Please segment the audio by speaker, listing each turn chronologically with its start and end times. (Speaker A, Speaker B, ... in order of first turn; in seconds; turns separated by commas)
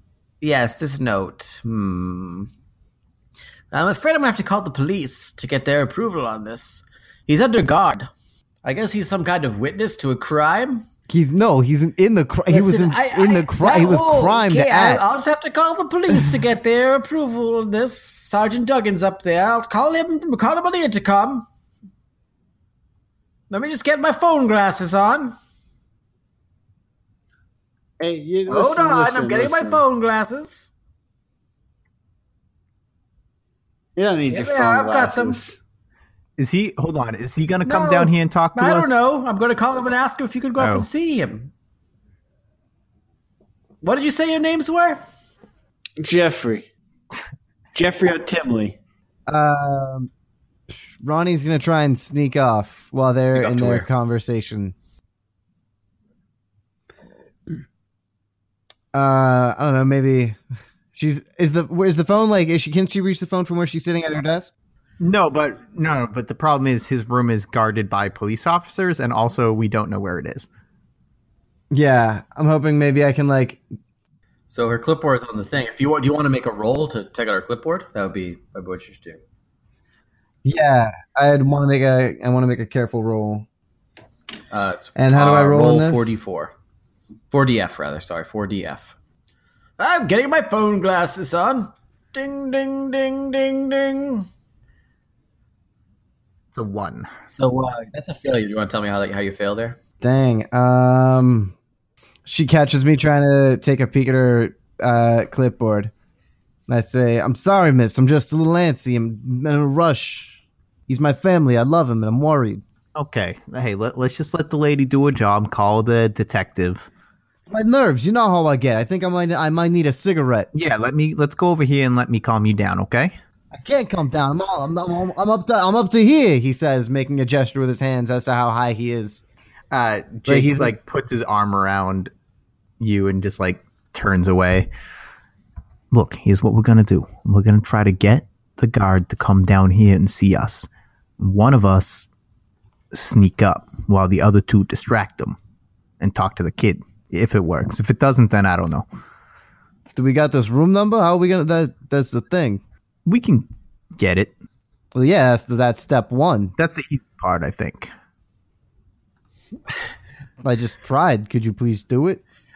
Speaker A: 0.4-2.5, Speaker A: 3.7-8.1, Speaker A: 8.6-10.9, Speaker B: 11.1-15.0, Speaker A: 12.5-21.5, Speaker A: 23.5-25.4, Speaker C: 28.0-29.8, Speaker A: 28.5-30.7, Speaker C: 34.0-35.6, Speaker A: 34.3-35.4, Speaker D: 36.4-39.0, Speaker A: 37.6-41.5, Speaker D: 40.6-40.9, Speaker A: 43.8-45.0, Speaker C: 46.0-46.7, Speaker C: 47.7-48.8, Speaker B: 49.3-50.1, Speaker B: 50.7-54.7, Speaker A: 53.3-53.9, Speaker B: 58.9-60.4, Speaker B: 60.9-64.5, Speaker D: 65.0-70.5, Speaker B: 71.7-73.6, Speaker A: 74.5-79.2, Speaker B: 80.4-83.5, Speaker A: 84.5-86.5, Speaker B: 85.0-86.2, Speaker A: 87.3-89.0, Speaker A: 89.8-94.3, Speaker D: 96.5-97.1, Speaker A: 97.3-99.8, Speaker B: 100.0-101.5, Speaker B: 102.3-105.9, Speaker B: 106.7-112.6, Speaker D: 113.0-116.9, Speaker B: 117.4-120.5, Speaker D: 120.5-123.2, Speaker B: 123.5-129.2, Speaker D: 129.7-132.1, Speaker B: 130.3-130.7, Speaker D: 132.8-134.7, Speaker D: 135.9-140.7, Speaker D: 141.2-142.1, Speaker D: 142.9-145.4, Speaker D: 146.0-148.8, Speaker B: 149.9-152.6, Speaker D: 153.1-154.3, Speaker B: 154.9-156.5, Speaker D: 156.6-157.9, Speaker B: 160.4-162.2